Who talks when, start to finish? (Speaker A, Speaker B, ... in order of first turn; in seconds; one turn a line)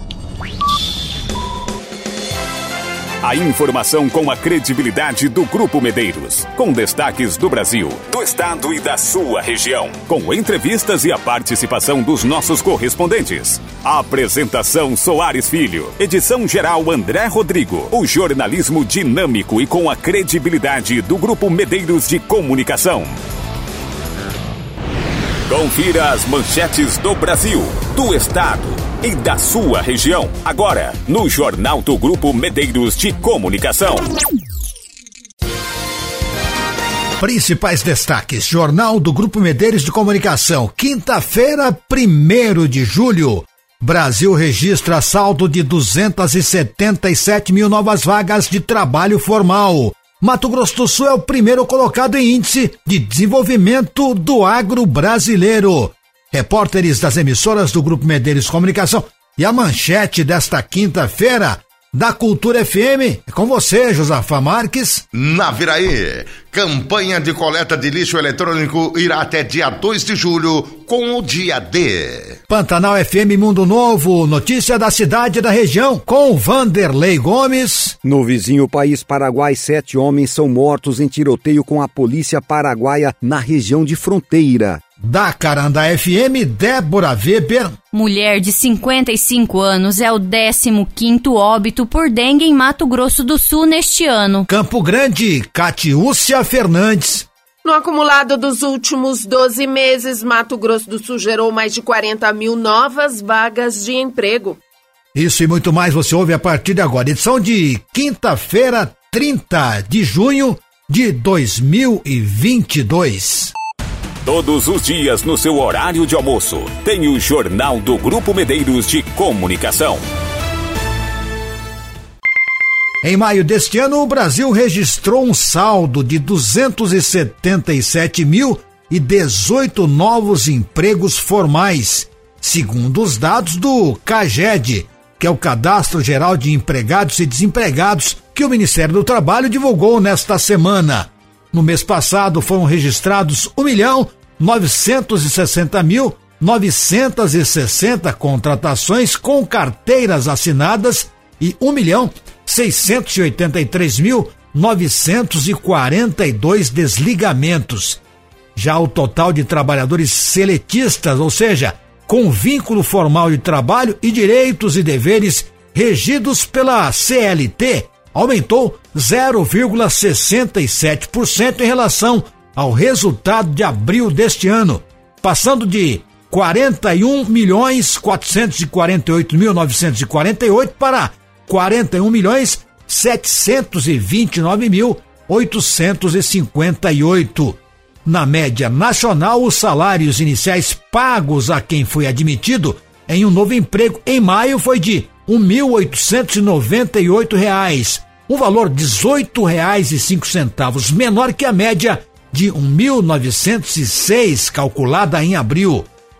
Speaker A: 3.2-23.2
Speaker A: 25.5-34.1
Speaker B: 37.2-65.0
Speaker C: 65.1-72.4
Speaker B: 72.5-78.0
Speaker D: 78.0-84.8
Speaker B: 85.0-87.8
Speaker E: 87.9-94.5
Speaker B: 94.5-97.3
Speaker F: 97.6-104.6
Speaker B: 105.1-113.5
Speaker A: 114.2-120.0
Speaker B: 123.0-158.0
Speaker B: 158.6-205.9